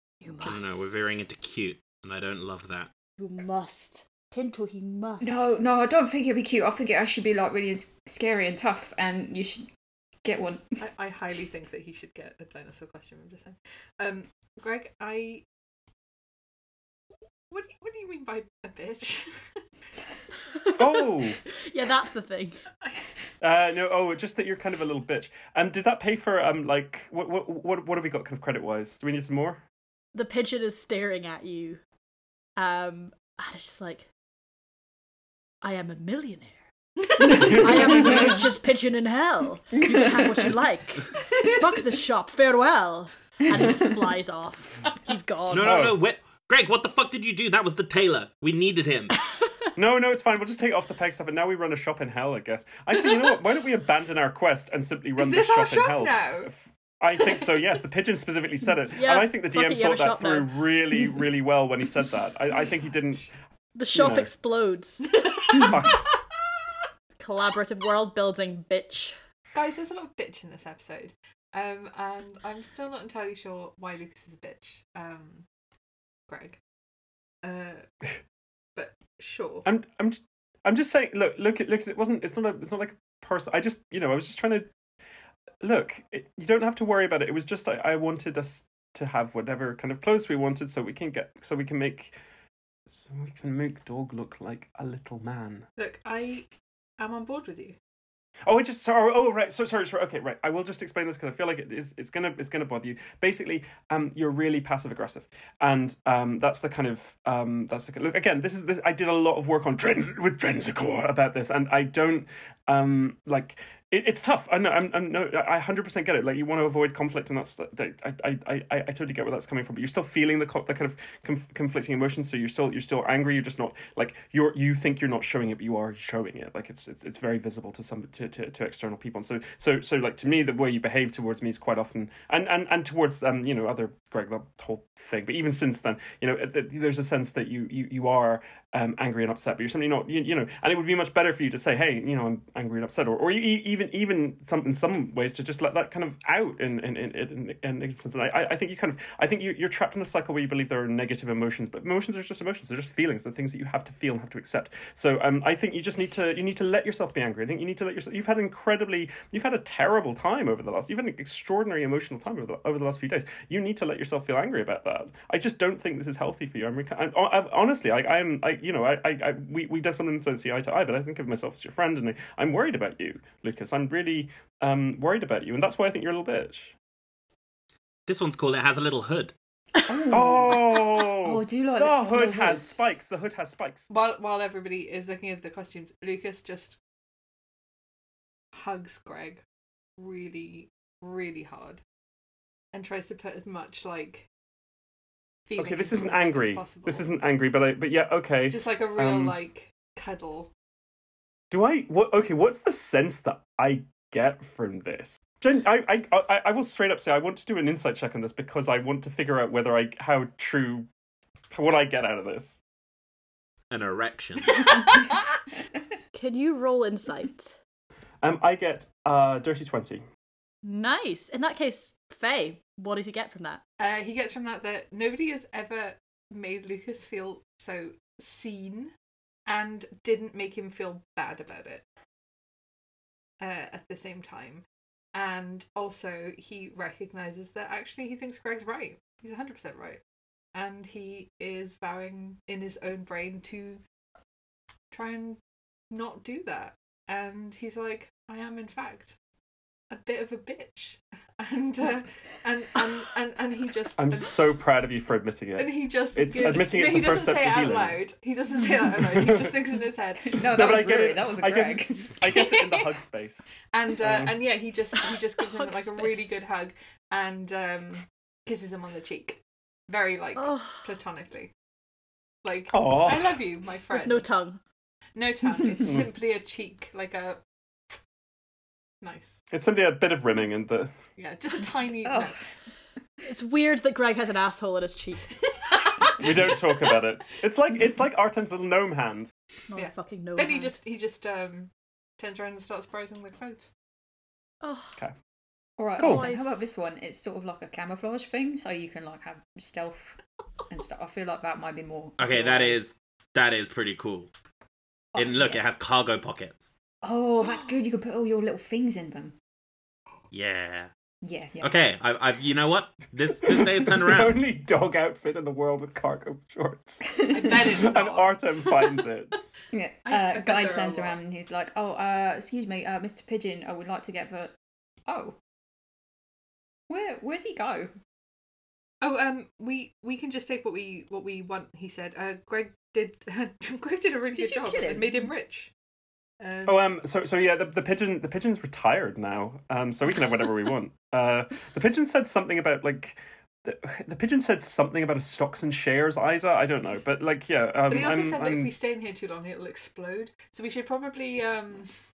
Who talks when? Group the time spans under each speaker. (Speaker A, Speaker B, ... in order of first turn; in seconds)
Speaker A: 0.2-1.1, 3.2-5.4, 20.5-22.6, 30.1-31.8, 32.6-34.1, 35.6-36.6, 37.2-45.8, 58.9-61.1, 63.7-65.1, 67.2-69.2, 216.1-217.5, 220.6-223.6, 265.4-266.1, 270.4-270.9, 273.9-274.6, 283.2-285.3, 289.7-290.8, 294.6-295.0, 296.0-296.6
Speaker B: 0.4-2.9, 45.5-49.1, 178.1-179.3, 213.7-214.7, 302.2-304.3, 305.1-306.8, 310.3-310.9, 311.6-314.4
Speaker C: 5.2-9.7, 10.2-10.7, 179.9-180.6, 181.2-182.9, 260.3-262.3, 282.0-282.4, 295.8-302.8, 305.1-305.6, 307.0-309.3, 311.2-311.7, 317.2-317.5, 319.7-324.5, 325.1-325.4, 326.9-327.9, 334.3-335.3
Speaker D: 10.8-15.4, 17.5-19.6, 55.1-56.5, 65.1-65.9, 69.5-75.5, 76.3-76.6, 77.4-77.8, 78.8-79.7, 95.8-96.5, 97.0-97.8, 183.9-186.8, 188.5-189.4, 190.0-191.8, 192.7-194.3, 195.4-197.1, 198.5-200.5, 223.8-228.9, 229.5-231.8, 233.4-240.0, 240.5-243.8, 244.9-245.4, 245.9-249.2, 249.9-254.3, 255.6-260.4, 262.3-262.9, 263.7-271.5, 272.4-274.3, 275.1-277.4, 279.0-279.4, 281.2-282.4, 289.7-293.7, 317.3-318.4, 320.0-321.2, 329.0-335.7, 336.4-336.9, 347.9-351.9
Speaker E: 20.8-21.4, 23.4-29.6, 37.4-38.0, 45.6-46.0, 49.8-63.3, 63.9-64.3, 65.7-66.1, 79.6-84.7, 85.6-92.2, 92.9-95.7, 98.4-176.7, 180.1-183.8, 195.6-199.4, 201.5-210.9, 211.5-212.6, 218.2-220.0, 254.0-258.0, 258.9-259.5, 260.4-264.4, 272.7-273.4, 279.5-280.9, 286.2-289.3, 296.0-296.3, 313.4-319.5, 336.6-348.7